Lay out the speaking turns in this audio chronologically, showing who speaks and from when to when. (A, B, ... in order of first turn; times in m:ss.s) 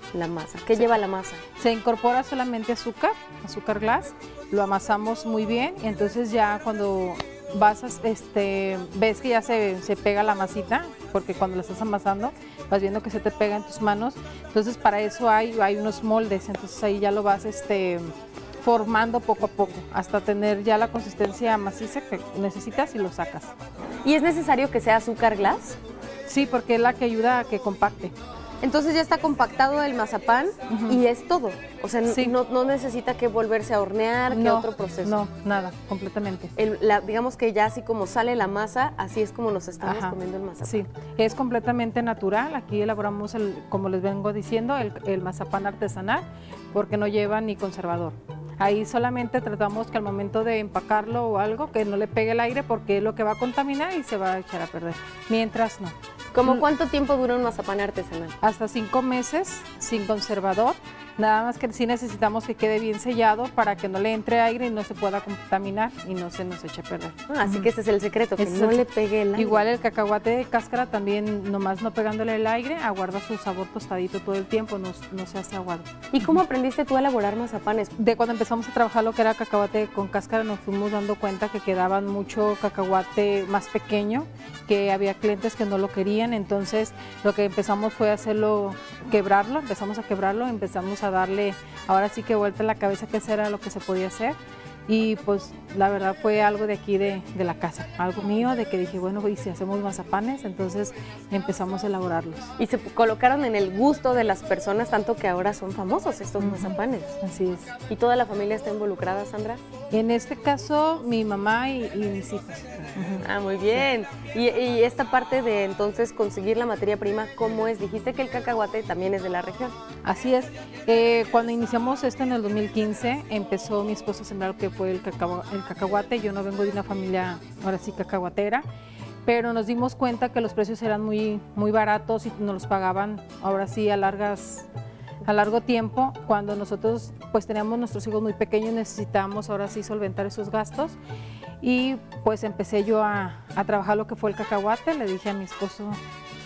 0:00.1-0:01.4 A
0:01.6-0:23.5 B
0:24.0-0:25.8 A
0:26.3-0:28.1 B
0:28.6-0:35.2 A
0:30.7-0:31.0 B
0:32.1-0:32.3 B
0:34.3-0:36.5 B
0:36.6-0:40.8 A
0:39.8-0:56.0 B
0:56.3-0:58.4 A
0:58.4-1:07.7 B
1:07.3-1:09.6 A
1:08.4-1:08.8 B
1:09.4-1:16.3 B
1:16.1-1:17.9 A
1:18.0-1:42.5 B
1:42.6-1:47.2 A
1:46.4-1:47.7 B
1:47.9-1:49.6 A
1:49.9-1:53.2 B
1:53.2-1:59.8 A
2:00.0-2:08.7 B
2:09.3-2:14.7 B
2:15.3-2:21.0 B
2:21.6-2:26.0 B